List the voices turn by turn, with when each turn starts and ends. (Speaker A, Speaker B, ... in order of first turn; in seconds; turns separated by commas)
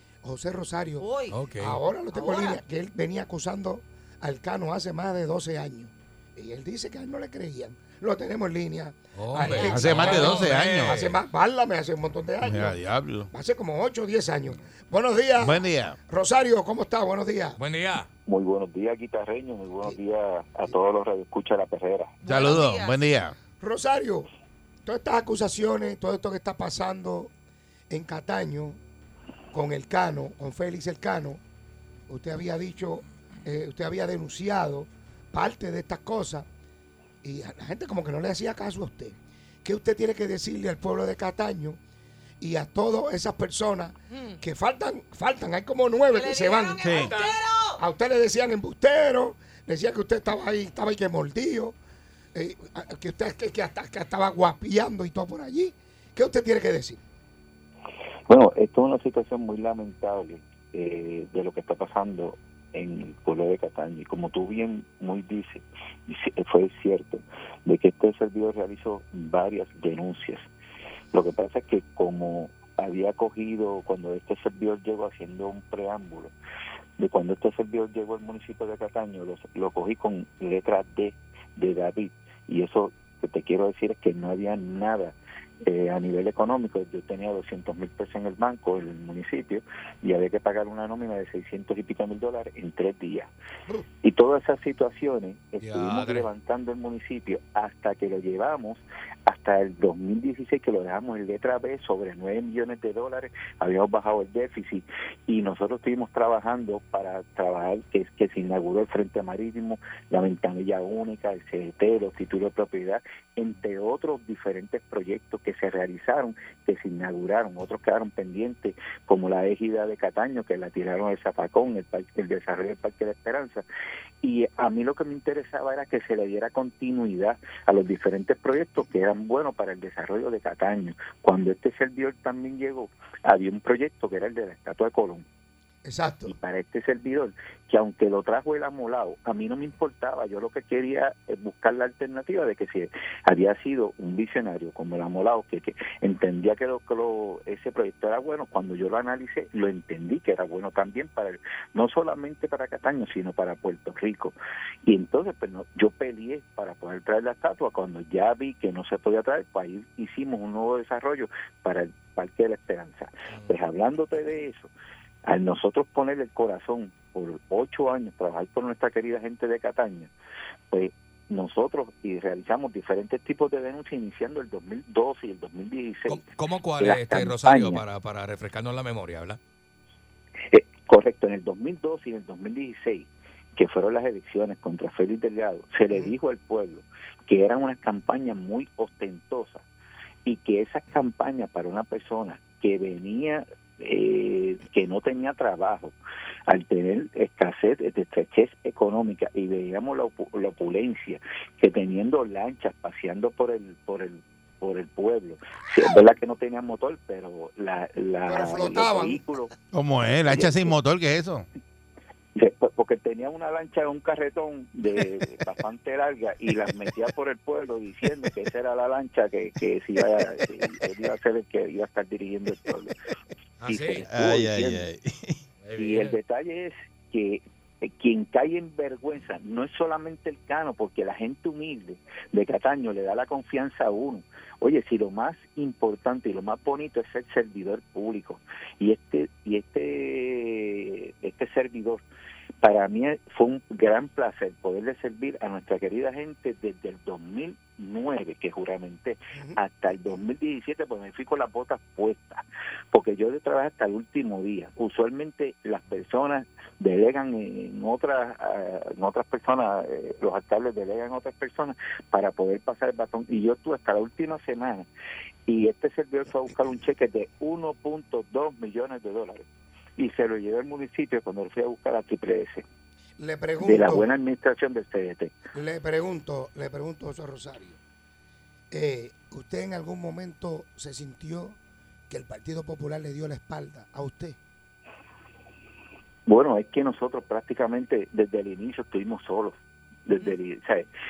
Speaker A: 0.2-12.8, Speaker B: 1.0-1.4, Speaker C: 1.3-1.8, Speaker B: 2.1-2.6, Speaker C: 9.2-11.2, Speaker B: 9.4-10.4, Speaker D: 9.6-11.0, Speaker D: 12.4-13.3, Speaker A: 13.3-17.6, Speaker D: 15.4-16.0, Speaker C: 17.6-18.1, Speaker E: 18.3-22.2, Speaker B: 22.2-23.1, Speaker D: 22.2-23.4, Speaker A: 23.6-24.3, Speaker A: 24.9-27.3, Speaker A: 27.9-28.8, Speaker A: 29.5-31.4, Speaker A: 32.1-36.5, Speaker A: 37.2-41.8, Speaker A: 42.4-46.9, Speaker B: 44.1-44.4, Speaker B: 46.1-47.8, Speaker D: 46.8-47.1, Speaker C: 46.9-47.4, Speaker A: 47.8-51.8, Speaker A: 52.3-57.0, Speaker E: 58.3-70.5, Speaker E: 71.1-76.3, Speaker E: 77.0-93.3, Speaker E: 94.0-123.6, Speaker C: 95.6-96.3, Speaker E: 124.2-135.3, Speaker A: 135.8-136.4, Speaker E: 136.3-164.7, Speaker C: 163.3-163.6, Speaker E: 165.3-170.1, Speaker E: 170.7-176.2, Speaker C: 176.1-179.4, Speaker E: 176.8-177.8, Speaker E: 180.5-189.7, Speaker E: 190.3-195.9, Speaker E: 196.5-209.5, Speaker A: 208.3-209.2, Speaker D: 209.7-211.5, Speaker E: 210.2-210.7, Speaker E: 212.3-223.0, Speaker C: 223.6-224.1, Speaker E: 223.7-224.9, Speaker D: 224.1-225.4, Speaker C: 225.6-226.2, Speaker E: 225.8-242.0, Speaker E: 242.6-264.9, Speaker A: 249.3-249.6, Speaker E: 265.5-269.5, Speaker E: 270.0-272.6, Speaker A: 273.2-274.1, Speaker E: 273.6-275.3, Speaker A: 275.5-277.8, Speaker A: 278.7-281.6, Speaker A: 282.1-284.4, Speaker E: 286.3-290.9